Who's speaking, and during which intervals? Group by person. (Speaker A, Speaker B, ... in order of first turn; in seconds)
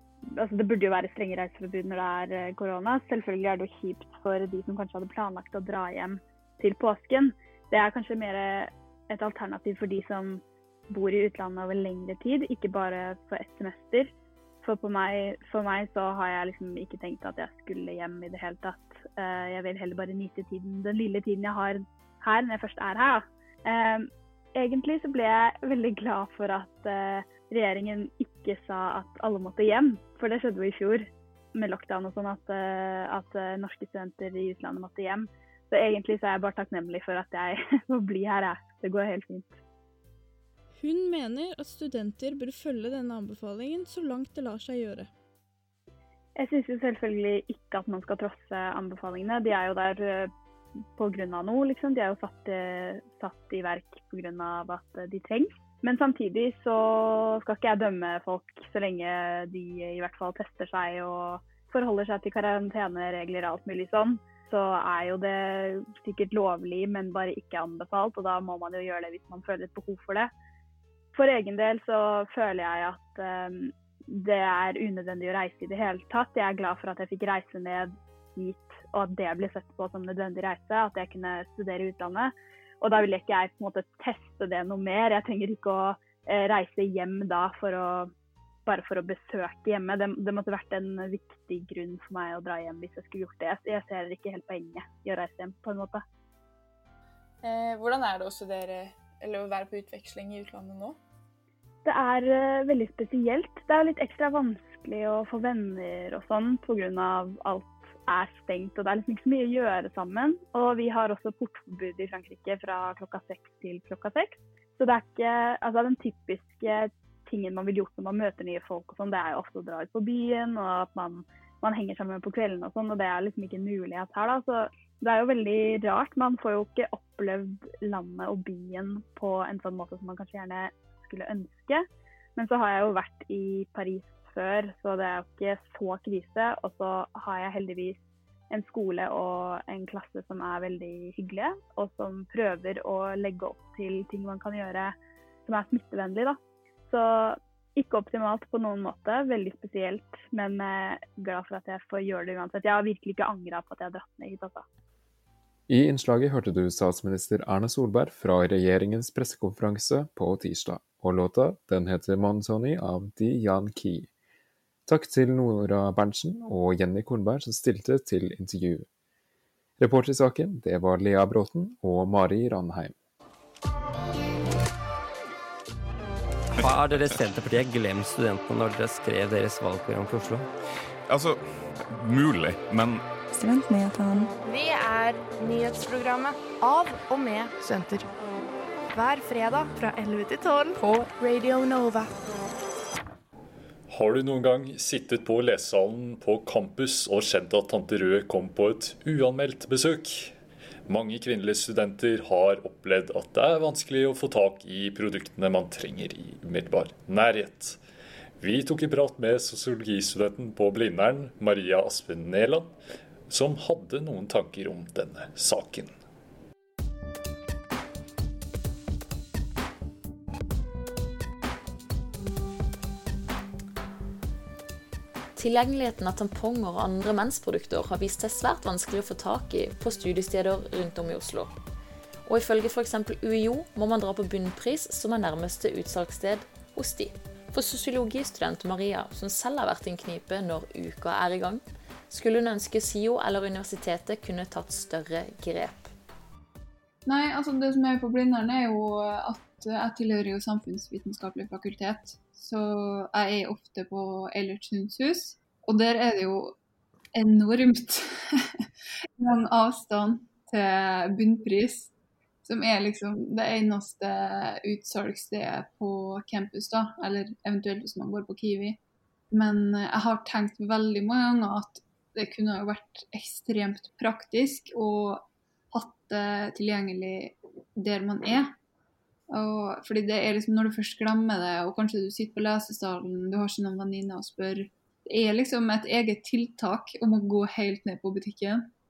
Speaker A: 0.3-14.1, 14.6-39.5, 46.4-50.3, 50.9-70.3, 71.1-88.1, 88.7-96.0, 101.8-138.0, 138.5-144.9, 145.4-146.4, 146.9-154.6
Speaker B: 40.7-45.1
Speaker C: 97.4-101.0
Speaker D: 155.7-164.1, 164.8-168.9, 169.8-172.9
Speaker E: 176.6-180.5
Speaker F: 181.1-183.1
Speaker G: 183.3-188.1, 188.9-192.1
Speaker H: 193.9-200.3, 200.9-207.8, 208.4-212.7, 213.3-215.9
Speaker I: 225.3-231.5, 232.2-245.9
Speaker J: 247.1-256.6, 257.1-258.4, 259.2-261.9, 262.4-268.8, 269.3-278.5, 279.3-288.7